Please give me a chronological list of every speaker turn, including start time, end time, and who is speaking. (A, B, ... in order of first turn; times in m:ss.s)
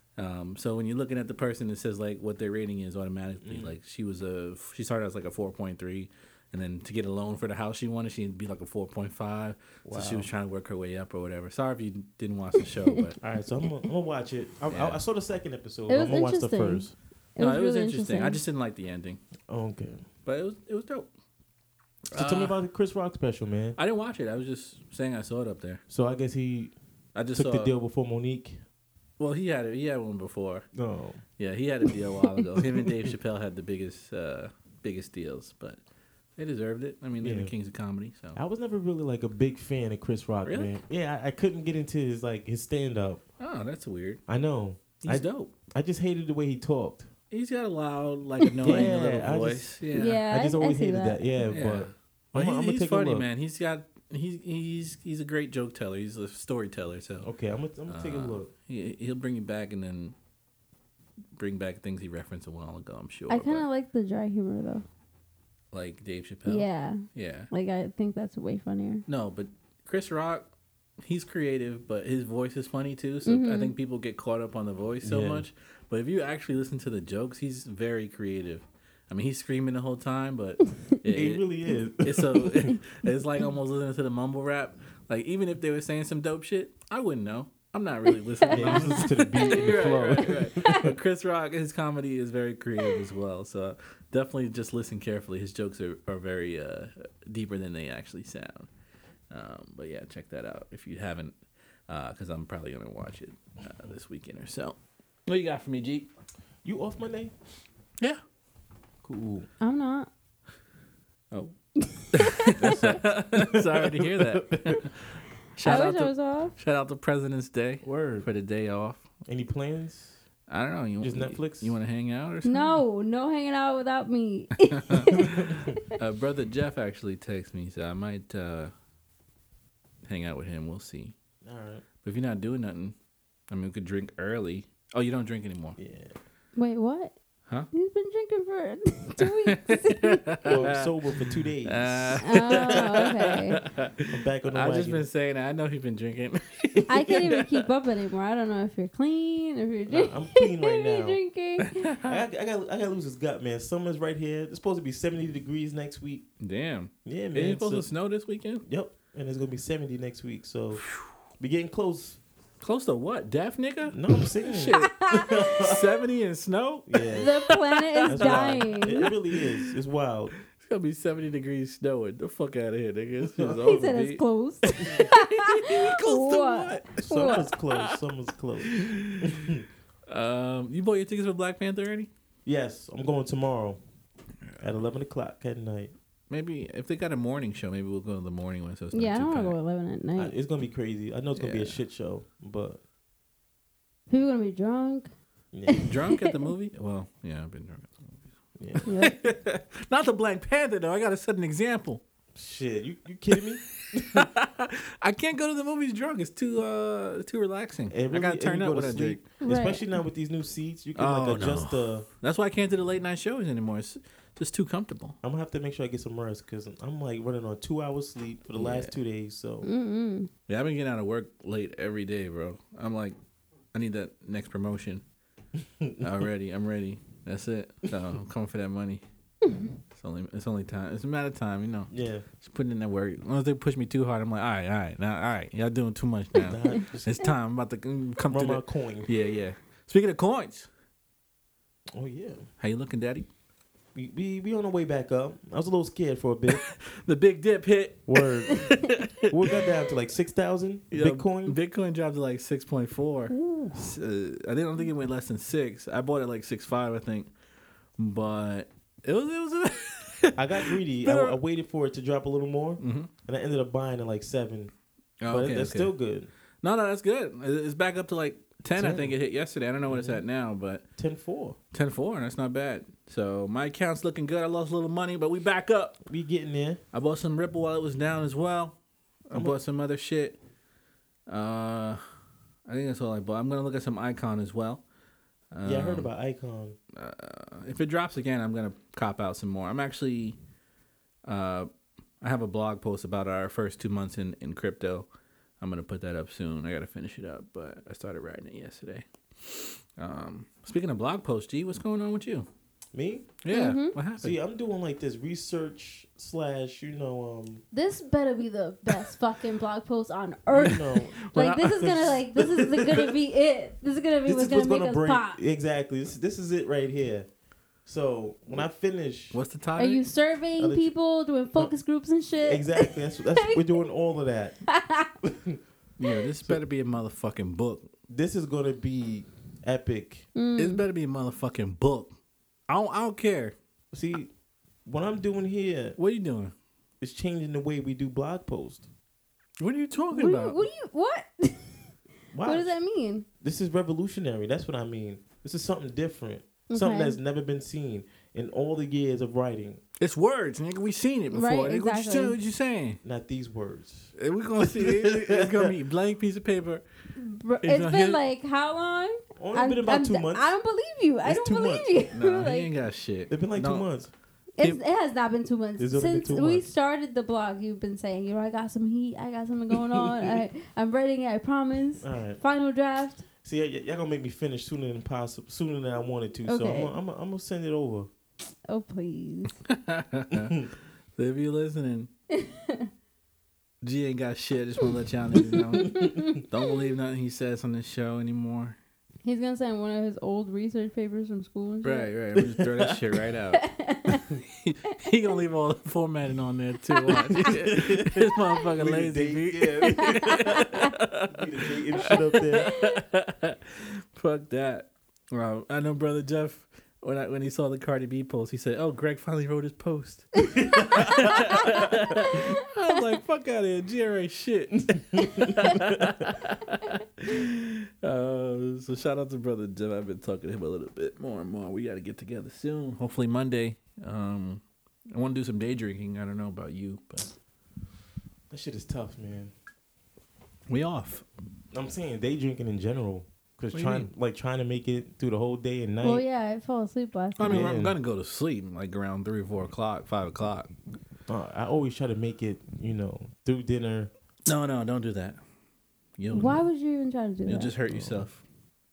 0:00.2-0:13.2 A
0:03.4-0:03.7 B
0:09.9-0:10.3 B
0:13.2-0:17.0 B
0:14.7-0:15.0 A
0:15.9-0:18.4 C
0:17.4-0:19.2 A
0:19.5-0:20.1 B
0:20.3-0:21.1 A
0:22.1-0:22.6 A
0:22.1-0:23.8 B
0:23.8-0:25.8 A
0:25.9-0:26.7 B
0:27.2-0:27.7 A
0:27.3-0:28.6 B
0:29.2-0:30.7 A
0:30.8-0:31.2 B
0:31.4-0:35.8 A
0:36.4-0:38.4 A
0:37.2-0:37.5 B
0:38.4-0:43.2 B
0:40.5-0:40.7 A
0:43.4-0:44.2 A
0:44.3-0:47.1 B
0:45.0-0:45.5 A
0:47.3-0:50.2 A
0:48.5-0:48.8 C
0:48.6-0:53.3 B
0:49.9-0:51.3 C
0:51.5-0:57.3 A
0:57.2-0:58.5 B
0:57.9-1:00.2 A
1:01.4-1:03.6 A
1:03.3-1:04.8 C
1:05.7-1:07.5 A
1:06.5-1:09.0 C
1:09.1-1:10.5 A
1:11.0-1:21.4 A
1:13.3-1:13.7 C
1:15.0-1:15.5 B
1:21.1-1:22.7 B
1:22.0-1:38.7 A
1:28.4-1:29.7 C
1:28.5-1:30.9 B
1:30.6-1:30.8 C
1:39.3-1:41.4 A
1:41.9-1:46.1 A
1:46.6-1:47.3 B
1:49.0-1:49.5 B
1:49.6-1:50.1 C
1:51.8-1:52.8 C
1:52.1-1:59.0 A
1:52.6-1:54.8 B
1:55.6-1:56.5 C
1:57.8-1:58.3 B
1:59.2-2:00.2 B
2:00.5-2:02.8 A
2:01.0-2:01.8 B
2:02.4-2:05.8 C
2:04.7-2:08.7 A
2:05.1-2:05.7 B
2:10.0-2:11.2 A
2:11.4-2:11.8 B
2:12.0-2:13.0 A
2:13.5-2:15.8 A
2:15.8-2:16.2 B
2:16.6-2:17.2 C
2:17.7-2:20.4 C
2:19.2-2:20.9 A
2:20.4-2:23.1 B
2:21.6-2:27.6 A
2:22.2-2:23.6 C
2:24.1-2:25.1 B
2:26.9-2:31.9 C
2:29.9-2:31.2 B
2:31.6-2:32.2 A
2:32.0-2:36.3 B
2:36.4-2:38.6 A
2:37.0-2:37.9 B
2:38.6-2:40.9 B
2:41.4-2:42.2 B
2:42.6-2:49.7 A
2:43.9-2:45.9 B
2:44.6-2:45.5 C
2:46.9-2:47.3 B
2:47.1-2:49.1 C
2:48.1-2:50.3 B
2:50.5-2:58.0 A
2:53.2-2:53.7 B
2:53.6-2:57.5 C
2:57.0-2:59.6 B
2:58.6-2:59.5 A
3:00.1-3:02.1 A
3:02.5-3:03.8 B
3:04.6-3:05.9 B
3:06.3-3:09.6 A
3:08.9-3:10.3 C
3:10.2-3:12.8 B
3:11.4-3:11.8 A
3:14.1-3:15.1 C
3:15.5-3:15.9 B
3:15.7-3:16.4 C
3:15.8-3:18.2 A
3:18.6-3:18.9 B
3:18.8-3:22.0 A
3:18.9-3:19.2 C
3:22.4-3:24.3 B
3:23.8-3:29.2 A
3:27.9-3:32.1 B
3:29.4-3:29.9 C
3:31.0-3:35.2 A
3:35.2-3:39.7 B
3:38.6-3:38.9 A
3:39.6-3:40.3 C
3:40.5-3:43.2 A
3:43.7-3:45.0 A
3:45.6-3:46.1 B
3:46.0-3:49.0 A
3:49.4-3:49.7 C
3:49.9-4:00.7 A
3:51.9-3:52.3 B
3:56.4-3:57.3 B
3:58.3-3:59.1 B
4:01.9-4:02.5 B
4:02.6-4:03.3 A
4:04.0-4:06.6 B
4:06.5-4:09.6 A
4:08.1-4:11.6 B
4:10.9-4:17.3 A
4:13.3-4:13.9 B
4:18.0-4:21.4 A
4:20.4-4:24.7 B
4:22.8-4:23.1 A
4:25.2-4:25.9 A
4:25.3-4:26.3 B
4:26.6-4:30.8 A
4:28.8-4:29.2 B
4:29.9-4:30.2 B
4:31.0-4:31.6 B
4:31.7-4:36.0 A
4:36.1-4:36.8 B
4:36.9-4:40.4 A
4:39.3-4:39.6 B
4:41.3-4:42.0 A
4:42.7-4:44.8 A
4:45.5-4:46.1 A
4:45.6-4:46.8 B
4:46.9-4:50.4 A
4:51.3-4:51.7 A
4:52.2-4:55.1 A
4:55.6-5:02.5 A
5:02.9-5:03.4 B
5:03.4-5:04.4 A
5:03.5-5:04.0 C
5:04.2-5:07.6 B
5:07.7-5:15.4 C
5:10.5-5:11.2 B
5:11.2-5:12.9 A
5:11.8-5:13.0 B
5:14.2-5:17.3 B
5:17.9-5:19.4 B
5:19.3-5:20.0 A
5:19.8-5:23.6 C
5:20.6-5:20.9 B
5:22.4-5:24.6 B
5:24.7-5:25.1 C
5:25.2-5:25.6 B
5:26.0-5:27.9 A
5:28.1-5:30.3 B
5:30.4-5:30.8 C
5:30.6-5:32.1 A
5:32.7-5:33.6 A
5:33.9-5:34.3 B
5:34.9-5:36.0 B
5:36.0-5:36.5 A
5:37.0-5:38.9 B
5:39.6-5:40.6 A
5:40.1-5:41.8 C
5:42.3-5:42.8 B
5:42.4-5:43.3 C
5:43.4-5:49.8 B
5:46.7-5:47.2 C
5:50.0-5:53.0 A
5:51.3-5:52.4 C
5:53.0-5:55.7 B
5:54.2-5:56.8 A
5:57.2-6:02.7 C
5:57.6-5:58.2 A
5:59.4-6:00.5 B
6:01.2-6:01.9 B
6:02.1-6:03.9 A
6:03.3-6:04.1 B
6:04.6-6:13.2 C
6:05.8-6:06.7 B
6:09.9-6:10.4 B
6:12.0-6:12.4 B
6:13.4-6:18.1 B
6:16.5-6:16.9 C
6:18.7-6:19.6 C
6:19.7-6:20.7 A
6:20.3-6:20.7 B
6:21.2-6:22.1 A
6:22.3-6:22.9 C
6:23.8-6:28.8 A
6:25.5-6:26.6 C
6:29.2-6:32.1 C
6:31.8-6:33.7 A
6:32.4-6:33.0 B
6:33.6-6:34.3 C
6:34.5-7:07.3 A
6:37.1-6:37.5 C
6:37.3-6:40.8 B
6:40.3-6:40.8 C
6:41.3-6:42.7 B
6:42.6-6:43.0 C
6:50.5-6:52.5 C
6:50.6-6:51.3 B
6:55.2-6:56.1 B
7:08.5-7:09.5 B
7:10.7-7:11.3 A
7:11.7-7:16.2 B
7:13.7-7:14.1 A
7:16.0-7:17.7 C
7:17.4-7:20.7 A
7:17.4-7:18.0 B
7:21.3-7:24.1 B
7:24.5-7:25.4 A
7:26.2-7:26.6 A
7:26.3-7:27.7 C
7:27.5-7:28.4 A
7:27.9-7:28.3 B